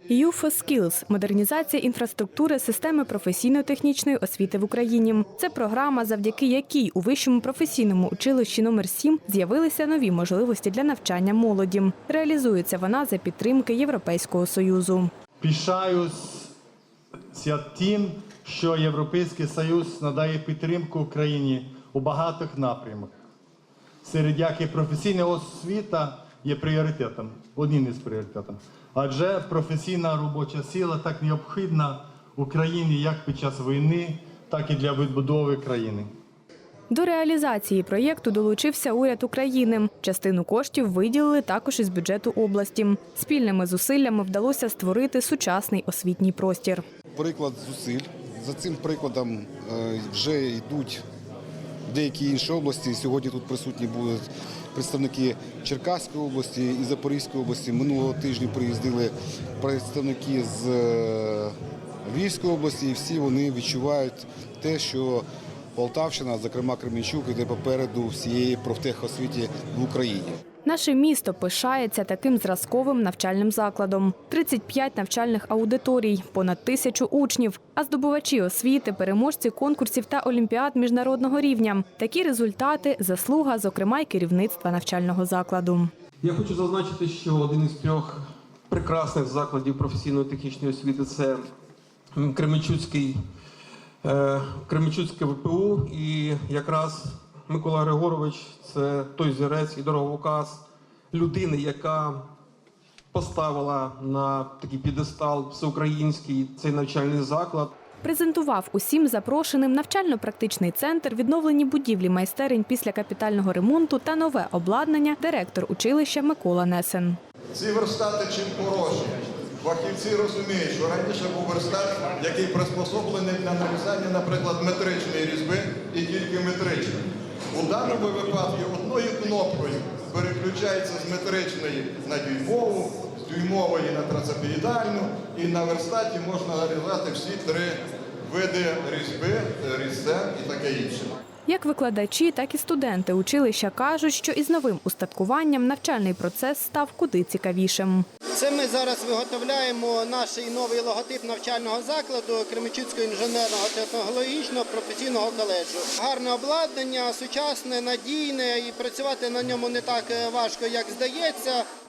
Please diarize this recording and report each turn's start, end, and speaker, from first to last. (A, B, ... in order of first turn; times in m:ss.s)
0:00.1-0:15.1 A
0:15.4-0:16.5 B
0:17.3-0:23.1 B
0:24.0-0:36.1 B
0:36.9-0:46.8 A
0:47.2-0:51.0 C
0:51.9-1:01.5 C
1:02.0-1:05.2 C
1:05.8-1:10.4 C
1:10.6-1:25.9 A
1:26.2-1:31.5 D
1:32.2-1:33.2 D
1:34.0-1:42.3 D
1:43.1-1:47.8 D
1:48.0-1:57.2 A
1:57.6-2:07.0 E
2:07.5-2:21.2 E
2:21.5-2:28.1 A
2:28.4-2:41.6 F